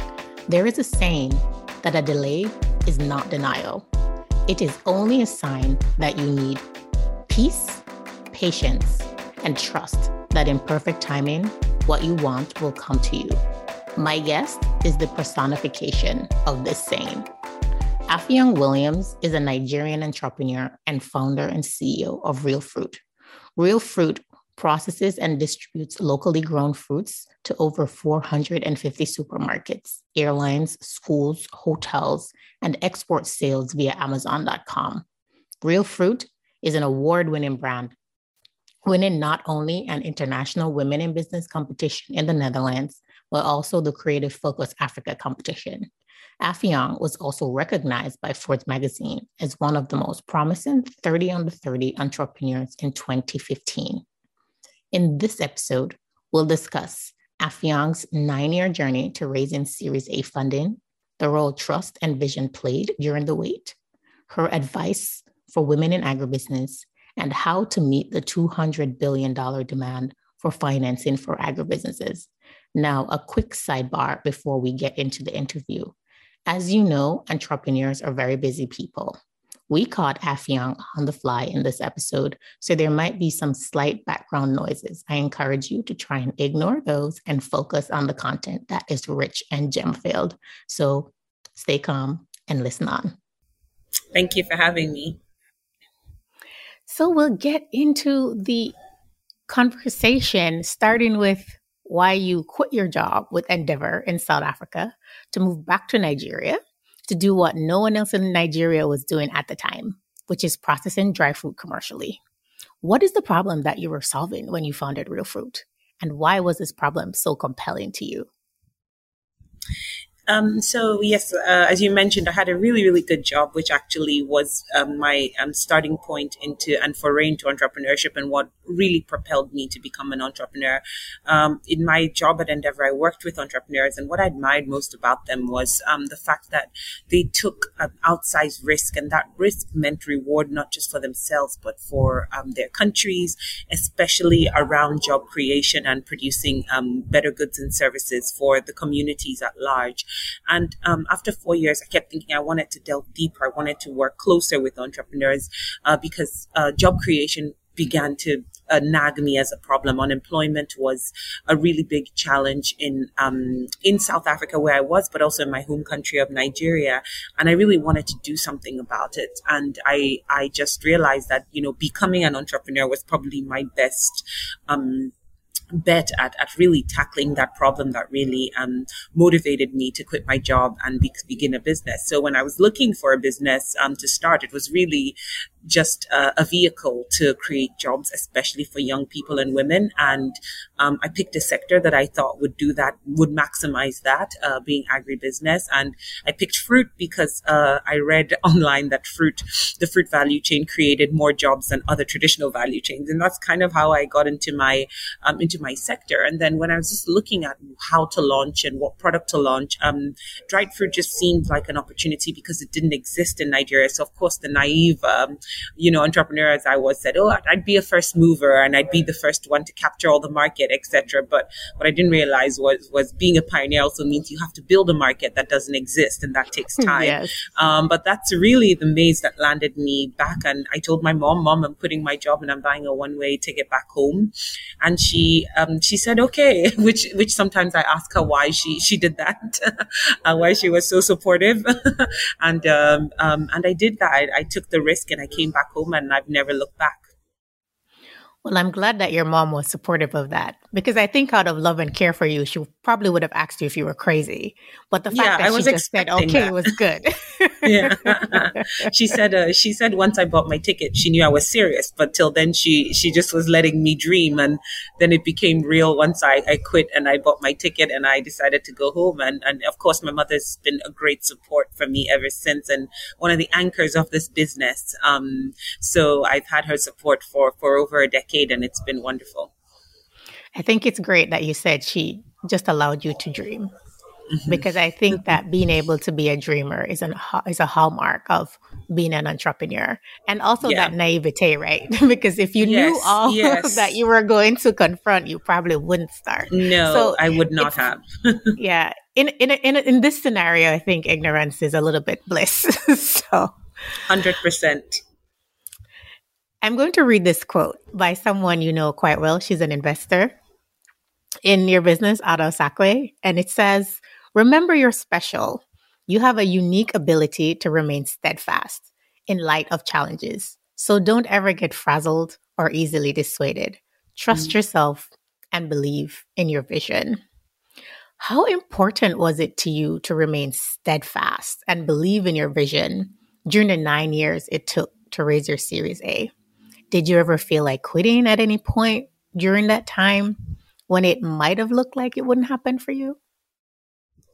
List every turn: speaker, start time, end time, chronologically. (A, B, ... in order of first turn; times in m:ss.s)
0:00.5-0:03.8 A
0:04.5-0:06.6 A
0:07.3-0:13.4 A
0:14.0-0:17.3 A
0:18.1-0:23.0 A
0:23.6-0:35.0 A
0:35.6-0:37.9 A
0:38.8-0:45.9 A
0:46.4-0:54.0 A
0:54.9-1:03.8 A
1:04.3-1:15.9 A
1:16.5-1:19.2 A
1:19.7-1:33.2 A
1:34.1-1:35.2 B
1:36.9-1:38.7 A
1:39.5-1:52.2 A
1:52.8-1:58.3 A
2:00.3-2:55.1 B
2:55.8-3:05.1 B
3:05.7-4:07.0 B
3:46.8-3:47.3 A
4:08.4-4:18.9 A
4:15.1-4:16.6 B
4:17.6-4:39.5 B
4:40.6-4:43.7 A
4:44.3-4:45.3 B
4:44.5-4:57.7 A
4:50.6-4:50.9 B
4:52.6-4:54.0 B
4:56.5-4:58.6 B
4:58.6-5:03.5 A
5:04.0-5:05.0 B
5:06.6-5:10.4 A
5:11.4-5:27.2 A
5:24.3-5:24.6 B
5:28.2-5:36.3 A
5:36.9-5:40.4 A
5:40.9-5:43.2 A